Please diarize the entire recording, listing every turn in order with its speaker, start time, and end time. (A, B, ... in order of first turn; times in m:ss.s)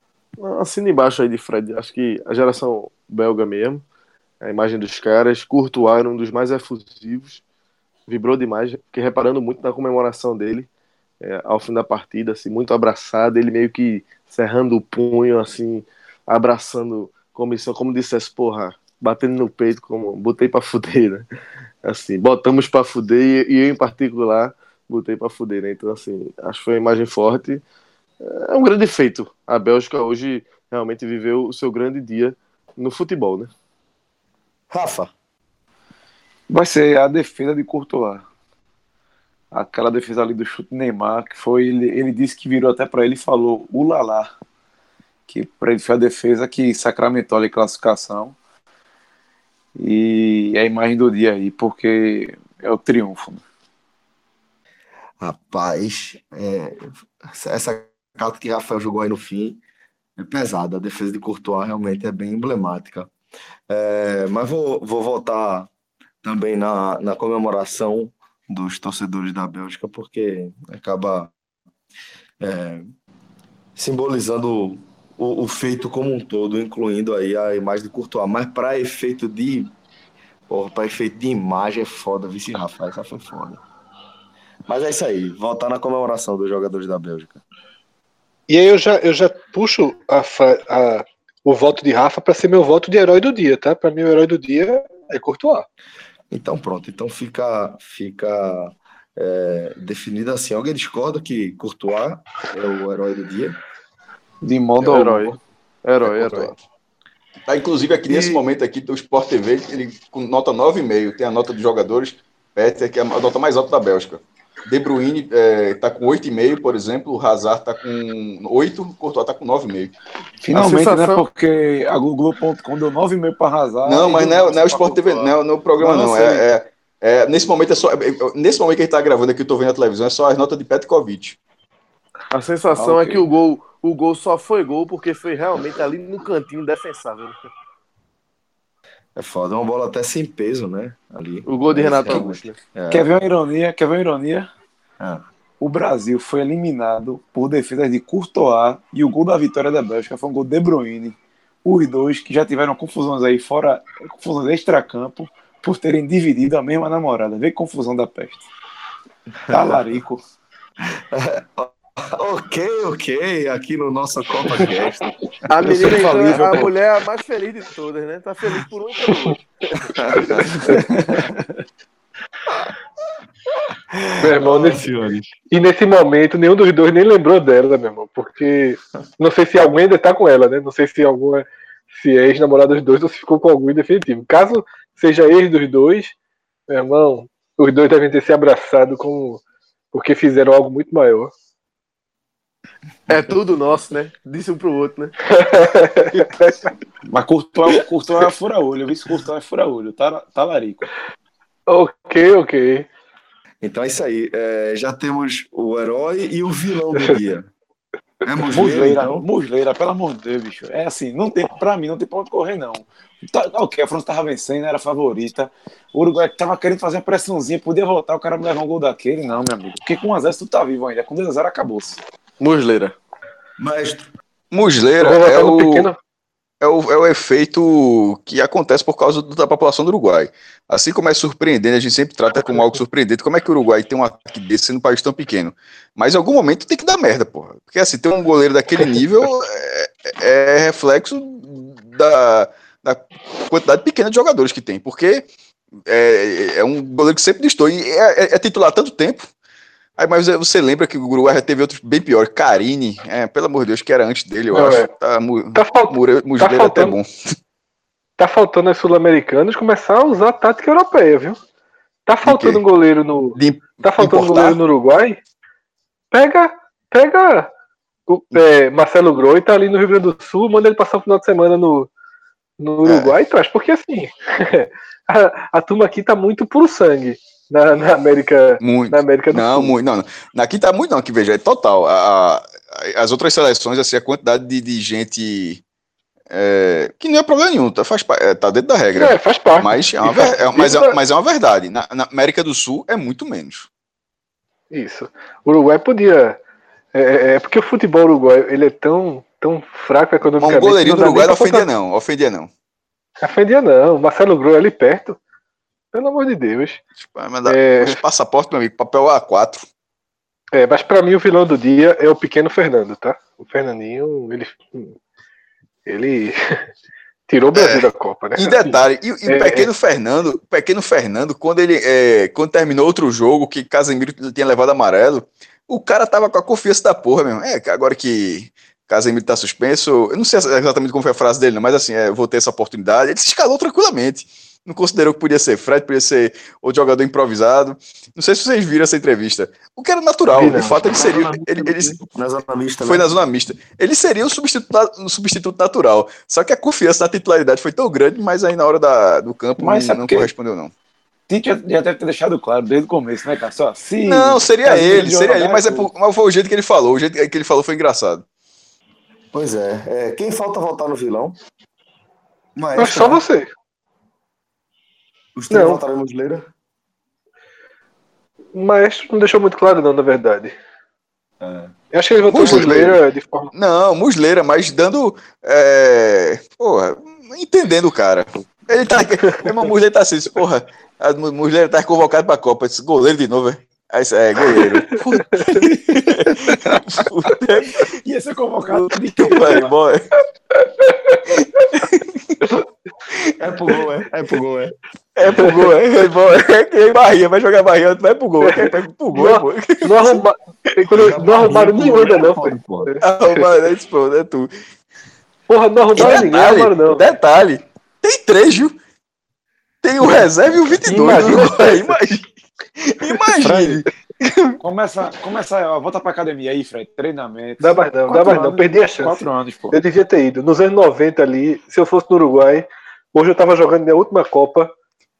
0:00.4-0:03.8 A
0:04.4-0:07.4 A
0:08.1-0:10.7 A
0:11.2-0:21.3 A
0:21.8-0:27.6 A
0:28.2-0:33.5 A
0:34.7-0:35.1 B
0:36.5-0:38.3 C
0:39.5-0:44.4 C
0:45.3-0:48.4 C
0:49.8-0:53.4 C
0:55.2-0:59.6 B
1:00.2-1:03.1 B
1:03.7-1:05.7 B
1:06.2-1:11.3 B
1:12.4-1:12.9 B
1:13.8-1:19.7 B
1:20.5-1:23.6 B
1:24.7-1:27.4 B
1:28.5-1:35.7 D
1:36.3-1:43.6 B
1:44.4-1:45.4 C
1:44.8-1:46.6 A
1:46.0-1:46.5 C
1:47.5-1:59.9 E
1:48.1-1:48.4 B
2:00.4-2:06.5 C
2:00.5-2:01.2 A
2:03.9-2:11.4 E
2:12.3-2:17.4 A
2:12.8-2:13.3 C
2:19.2-2:23.0 B
2:21.5-2:22.6 A
2:22.9-2:24.5 C
2:25.6-2:38.5 C
2:39.5-2:40.0 B
2:39.5-2:40.2 C
2:40.9-2:45.1 B
2:45.5-2:49.5 A
2:45.6-2:46.7 C
2:49.8-2:50.5 B
2:50.6-2:51.3 C
2:54.0-2:55.3 B
2:54.2-2:54.8 D
2:55.5-3:06.2 D
3:06.7-3:11.3 D
3:13.1-3:15.2 A
3:15.3-3:16.5 D
3:17.1-3:20.9 C
3:21.7-3:22.9 D
3:23.6-3:27.5 B
3:28.2-3:29.2 B
3:28.5-3:42.0 C
3:42.4-3:43.0 A
3:43.6-3:44.1 B
3:44.5-3:45.9 E
3:45.0-3:46.0 D
3:46.6-4:05.3 E
4:05.9-4:09.3 E
4:10.0-4:17.1 E
4:14.5-4:14.9 D
4:15.5-4:17.0 D
4:18.2-4:21.4 D
4:22.1-4:25.2 D
4:22.2-4:22.6 E
4:23.4-4:24.6 E
4:26.1-4:27.5 D
4:28.1-4:31.9 D
4:32.6-4:39.8 D
4:32.8-4:33.1 E
4:38.6-4:45.6 E
4:46.3-4:53.7 E
4:49.0-4:51.0 D
4:54.7-4:56.4 D
4:56.9-5:01.7 D
5:00.4-5:02.5 E
5:03.2-5:05.2 D
5:05.9-5:06.8 D
5:07.0-5:09.7 E
5:07.4-5:08.0 D
5:10.5-5:15.0 D
5:15.9-5:16.7 D
5:17.3-5:19.7 D
5:17.6-5:42.0 E
5:40.3-5:40.8 D
5:40.5-5:43.1 B
5:42.8-5:50.7 E
5:49.6-5:50.3 C
5:51.3-5:55.9 C
5:54.1-5:58.2 E
5:59.3-6:01.4 B
6:02.6-6:03.2 B
6:02.8-6:03.5 D
6:05.4-6:06.5 B
6:05.5-6:05.8 D
6:08.6-6:10.6 D
6:11.4-6:11.7 B
6:11.9-6:13.5 D
6:12.3-6:13.0 E
6:12.4-6:12.7 B
6:13.5-6:27.9 E
6:24.5-6:25.6 D
6:28.0-6:29.7 C
6:28.8-6:30.0 E
6:31.3-6:32.3 E
6:33.4-6:34.7 B
6:35.2-6:40.2 E
6:35.4-6:35.7 D
6:38.4-6:43.5 D
6:40.9-6:42.9 B
6:43.0-6:44.5 E
6:45.5-6:47.1 D
6:46.0-6:48.8 E
6:49.8-6:53.8 E
6:50.8-6:52.2 D
6:53.4-6:53.8 C
6:54.6-6:59.8 C
6:57.6-7:04.7 D